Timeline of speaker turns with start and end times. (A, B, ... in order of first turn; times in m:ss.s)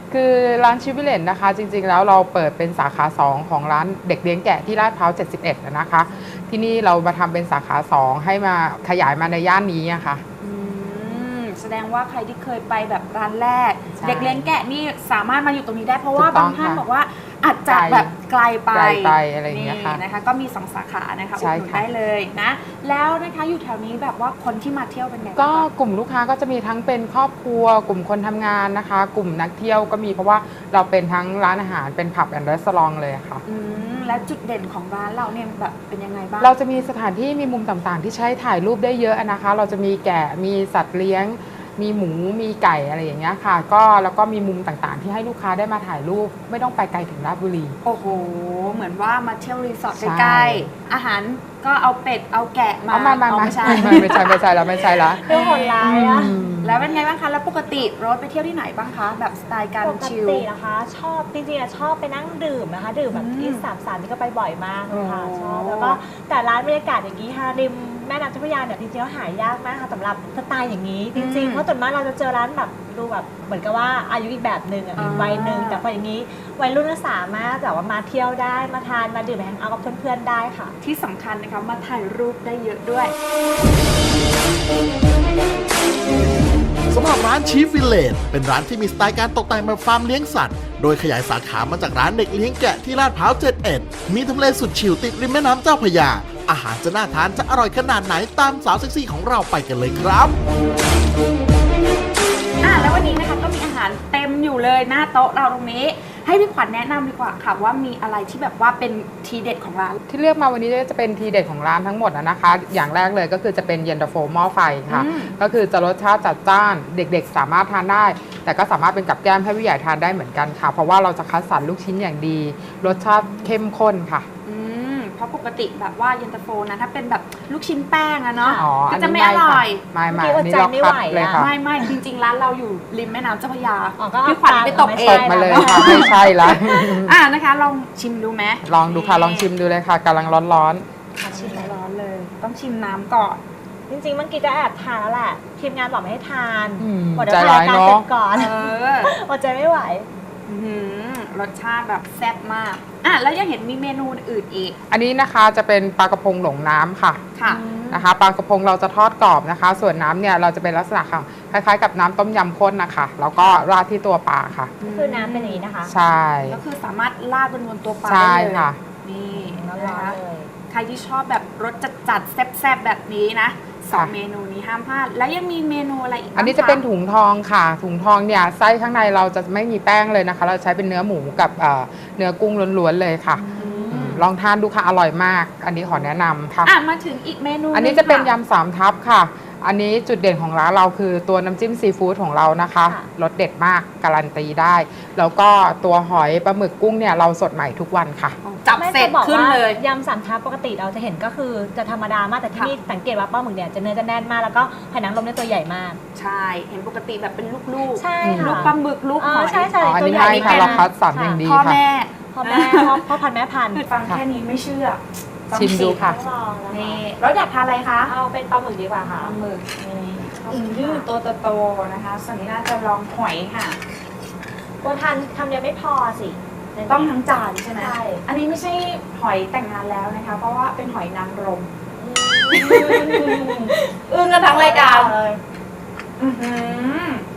0:00.1-0:10.2 A
0:10.4-0:25.7 B
0:13.9-0:14.5 A
0:16.1-0:16.8 A
0:17.7-0:18.1 A
0:18.7-0:20.0 A
0:21.4-0:21.8 A
0:25.4-0:33.4 A
0:33.4-0:36.6 B
0:36.4-0:47.8 A
0:47.8-1:00.5 B
0:49.9-0:50.7 A
0:52.9-0:55.2 A
0:55.2-0:56.5 C
0:55.8-0:56.8 A
0:59.8-1:20.8 C
1:03.1-1:03.6 B
1:04.9-1:06.0 B
1:11.1-1:11.6 B
1:15.0-1:15.8 B
1:20.8-1:23.1 B
1:26.9-1:40.3 D
1:42.6-1:50.0 B
1:42.7-1:43.2 C
1:50.1-2:04.3 A
1:54.9-1:55.3 B
2:04.4-2:09.8 B
2:08.4-2:08.9 C
2:08.6-2:11.5 A
2:10.1-2:11.4 C
2:11.3-2:19.5 B
2:14.0-2:16.2 C
2:14.8-2:17.2 A
2:18.6-2:20.8 A
2:21.2-2:21.8 C
2:21.3-2:23.4 B
2:23.9-2:30.1 C
2:26.8-2:28.0 A
2:28.3-2:29.1 B
2:30.4-2:34.8 B
2:34.9-2:37.2 A
2:37.3-2:37.6 B
2:37.4-2:38.0 C
2:37.9-2:44.7 A
2:44.8-2:45.6 B
2:44.8-2:45.9 C
2:45.8-2:46.6 A
2:46.4-2:50.2 B
2:48.0-2:48.8 A
2:49.3-2:50.5 C
2:50.7-2:56.8 B
2:56.4-3:06.7 A
3:03.3-3:04.2 C
3:03.6-3:04.2 B
3:06.6-3:08.4 B
3:07.7-3:18.4 A
3:12.8-3:13.1 C
3:18.4-3:19.8 B
3:18.8-3:26.0 C
3:26.1-3:30.8 B
3:27.9-3:31.4 C
3:28.2-3:28.7 A
3:29.8-3:31.8 A
3:31.4-3:33.1 B
3:32.3-3:33.8 C
3:33.7-3:36.0 B
3:35.5-3:36.2 A
3:36.0-3:37.0 C
3:36.7-3:38.1 B
3:38.1-3:39.3 C
3:39.0-3:43.8 B
3:40.4-3:41.0 C
3:44.8-3:47.1 C
3:46.9-3:51.7 B
3:47.8-3:48.2 C
3:52.0-3:53.7 C
3:52.5-3:55.2 B
3:54.5-3:55.4 C
3:56.2-3:57.2 B